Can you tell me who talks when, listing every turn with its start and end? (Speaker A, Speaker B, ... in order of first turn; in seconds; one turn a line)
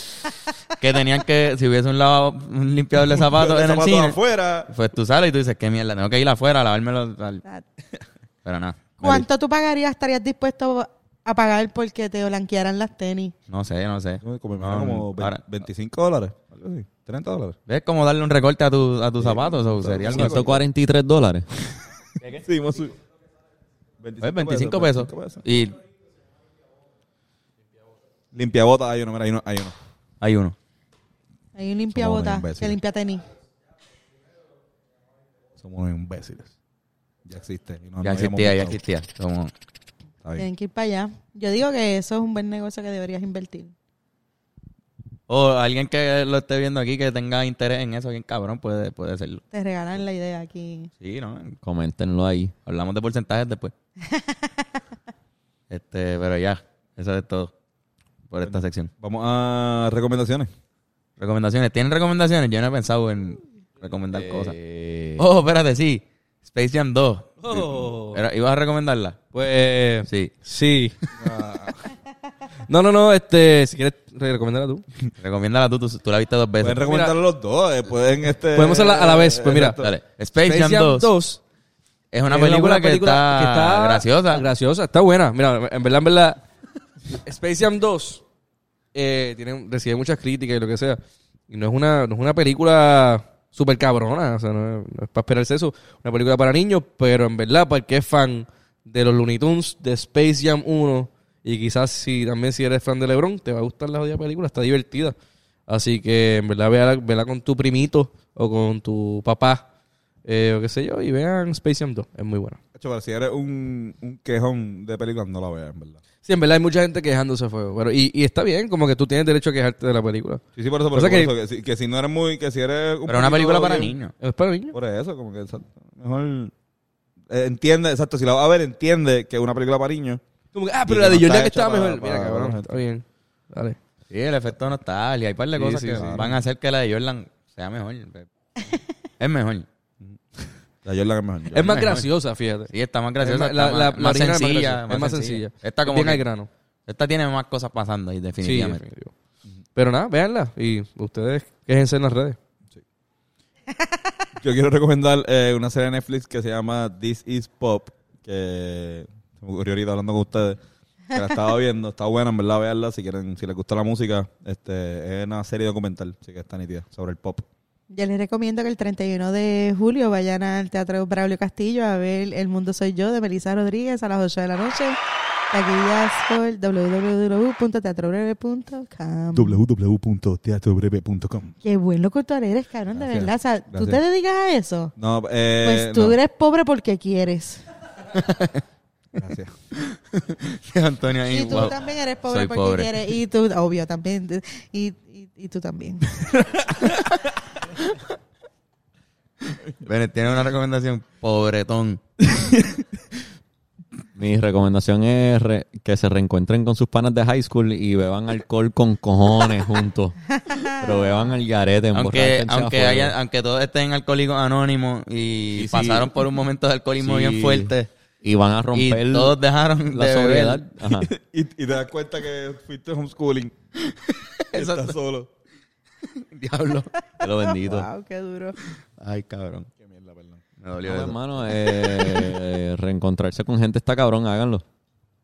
Speaker A: 0.8-4.2
Speaker B: 3.1-4.7
Speaker A: 4.7-7.4
Speaker A: 8.4-9.2
Speaker C: 9.0-13.3
Speaker A: 13.5-15.4
Speaker B: 14.2-17.6
Speaker A: 17.7-20.6
Speaker B: 19.2-20.6
Speaker D: 20.1-21.5
Speaker B: 22.2-22.9
Speaker B: 24.0-25.4
Speaker A: 24.2-25.8
Speaker B: 28.3-29.7
Speaker A: 30.2-30.5
Speaker C: 31.6-33.2
Speaker B: 31.9-32.8
Speaker B: 35.6-36.5
Speaker B: 37.2-38.8
Speaker A: 38.0-39.5
Speaker C: 40.4-43.7
Speaker A: 45.3-49.4
Speaker C: 49.5-50.9
Speaker A: 51.0-51.6
Speaker D: 51.6-52.5
Speaker A: 52.6-53.7
Speaker C: 54.1-54.6
Speaker A: 55.7-57.5
Speaker A: 58.3-58.9
Speaker B: 58.4-60.5
Speaker A: 61.2-64.5
Speaker D: 64.1-65.2
Speaker A: 65.2-67.4
Speaker E: 67.4-68.2
Speaker B: 67.5-67.9
Speaker A: 68.1-69.2
Speaker E: 69.3-70.9
Speaker A: 70.1-70.3
Speaker B: 71.2-71.9
Speaker E: 72.7-74.8
Speaker A: 75.2-76.8
Speaker B: 76.6-79.9
Speaker E: 76.8-77.1
Speaker E: 78.5-79.8
Speaker A: 79.8-81.1
Speaker E: 80.4-81.4
Speaker A: 82.1-84.5
Speaker E: 82.3-86.4
Speaker E: 87.1-88.2
Speaker E: 88.9-105.2
Speaker E: 105.7-109.7
Speaker E: 110.2-112.6
Speaker B: 112.8-116.0
Speaker E: 116.2-120.4
Speaker B: 120.6-123.9
Speaker E: 120.9-121.3
Speaker A: 123.1-124.1
Speaker E: 124.2-124.8
Speaker B: 124.7-126.5
Speaker B: 127.3-130.2
Speaker E: 130.5-133.8
Speaker B: 130.8-132.8
Speaker A: 134.1-138.3
Speaker E: 135.6-136.3
Speaker B: 136.0-136.3
Speaker A: 139.2-139.7
Speaker B: 140.0-141.8
Speaker E: 141.5-146.5
Speaker A: 141.6-142.1
Speaker A: 142.7-146.2
Speaker A: 146.9-148.8
Speaker E: 148.4-149.1
Speaker E: 149.8-152.4
Speaker B: 154.4-160.6
Speaker B: 161.1-167.4
Speaker C: 167.9-175.0
Speaker C: 175.5-179.6
Speaker B: 179.3-181.5
Speaker C: 181.6-184.9
Speaker B: 182.9-184.0
Speaker B: 185.0-186.2
Speaker C: 185.6-187.6
Speaker A: 188.2-188.6
Speaker B: 189.2-189.5
Speaker A: 189.8-192.9
Speaker C: 191.3-196.4
Speaker A: 199.8-202.0
Speaker D: 204.2-213.2
Speaker C: 210.4-211.1
Speaker A: 211.9-217.9
Speaker D: 215.6-216.1
Speaker D: 217.0-219.4
Speaker A: 218.7-220.7
Speaker D: 219.9-221.1
Speaker B: 221.0-223.6
Speaker A: 223.9-225.0
Speaker B: 224.5-225.3
Speaker A: 226.1-227.8
Speaker D: 227.2-227.9
Speaker C: 227.2-228.6
Speaker A: 229.0-229.7
Speaker B: 229.8-230.4
Speaker A: 230.6-232.1
Speaker D: 230.8-234.6